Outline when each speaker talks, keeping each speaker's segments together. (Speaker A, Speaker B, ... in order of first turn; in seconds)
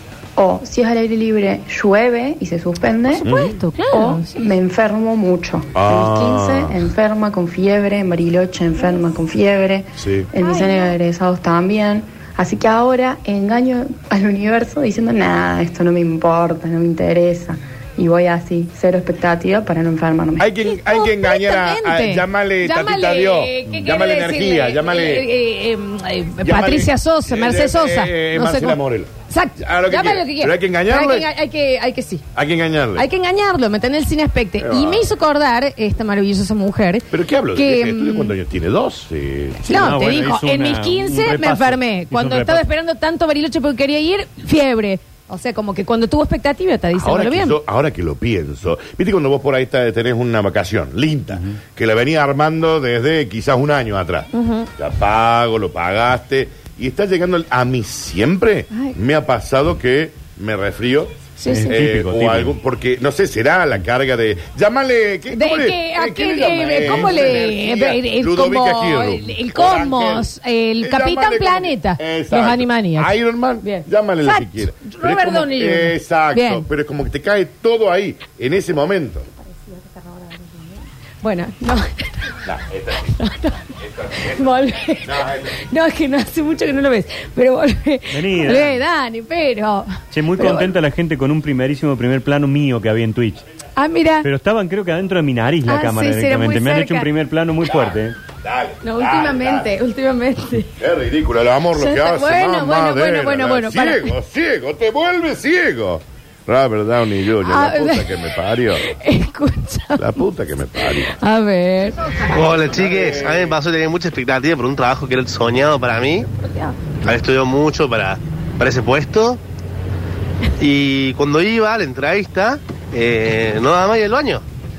Speaker A: 0.4-3.3, 3.9-20.5
Speaker B: 3.1-4.4, 10.4-11.0, 20.7-32.2, 32.9-38.3, 39.6-47.6, 54.3-54.7, 61.4-61.8, 65.3-76.7, 79.5-82.4, 83.0-90.7, 93.8-94.3, 95.7-97.1, 98.8-100.7, 101.8-104.1, 107.4-108.1, 108.8-110.2, 111.0-112.2, 116.2-116.8
Speaker C: 3.2-3.6, 5.7-6.8, 10.0-10.3, 20.4-25.3, 26.4-31.3, 32.3-33.1, 34.6-35.1, 37.1-39.8, 46.9-61.2, 61.7-79.3, 82.5-83.0, 83.8-84.4, 85.0-85.5, 97.7-99.7, 100.8-108.9, 110.0-111.2, 112.5-113.5
Speaker D: 39.7-42.6, 61.5-62.5, 88.1-88.8, 90.1-93.4, 94.2-98.2
Speaker E: 112.3-116.3, 117.0-119.4, 120.6-124.4